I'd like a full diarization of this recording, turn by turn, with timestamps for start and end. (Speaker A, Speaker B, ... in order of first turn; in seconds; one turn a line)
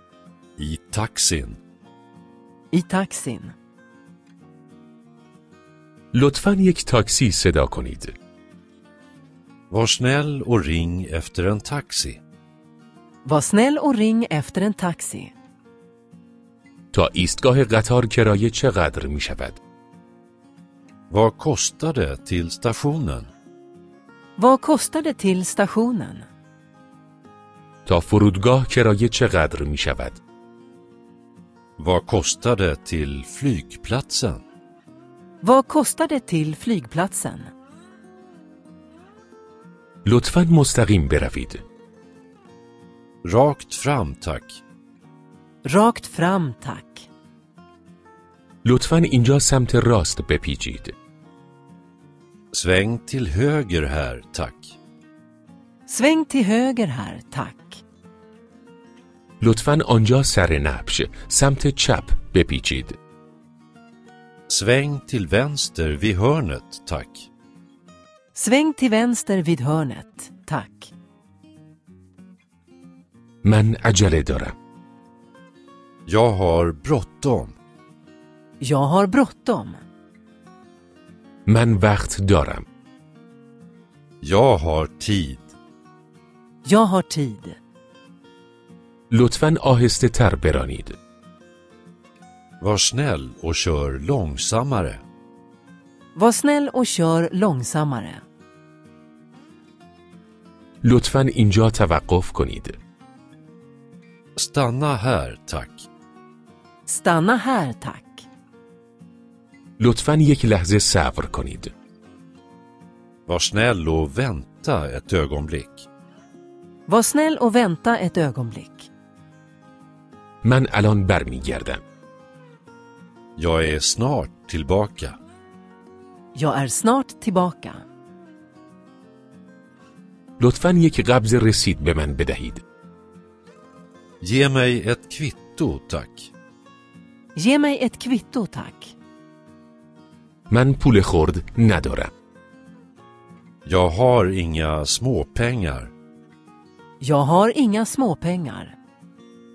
Speaker A: 0.6-1.6
Speaker B: 2.7-3.5
Speaker C: 6.1-8.1
Speaker A: 9.7-12.2
Speaker B: 13.2-15.3
Speaker C: 16.9-19.6
Speaker A: 21.1-23.3
Speaker B: 24.4-26.3
Speaker C: 27.9-30.2
Speaker A: 31.8-34.4
Speaker B: 35.4-37.5
Speaker C: 40.0-41.6
Speaker A: 43.2-44.6
Speaker B: 45.6-47.1
Speaker C: 48.6-50.9
Speaker A: 52.5-54.8
Speaker B: 55.9-57.8
Speaker C: 59.4-63.0
Speaker A: 64.5-67.3
Speaker B: 68.3-70.9
Speaker C: 73.4-74.5
Speaker A: 76.0-77.5
Speaker B: 78.6-79.8
Speaker C: 81.5-82.6
Speaker A: 84.2-85.5
Speaker B: 86.6-87.6
Speaker C: 89.1-91.0
Speaker A: 92.6-95.0
Speaker B: 96.1-98.2
Speaker C: 100.8-102.8
Speaker A: 104.3-105.9
Speaker B: 106.9-108.3
Speaker C: 109.8-111.7
Speaker A: 113.2-115.9
Speaker B: 116.9-118.9
Speaker C: 120.4-121.8
Speaker A: 123.4-125.2
Speaker B: 126.3-127.8
Speaker C: 130.4-132.6
Speaker A: 134.2-136.3
Speaker B: 137.3-138.9
Speaker C: 140.5-142.1
Speaker A: 143.6-145.9
Speaker B: 147.0-148.8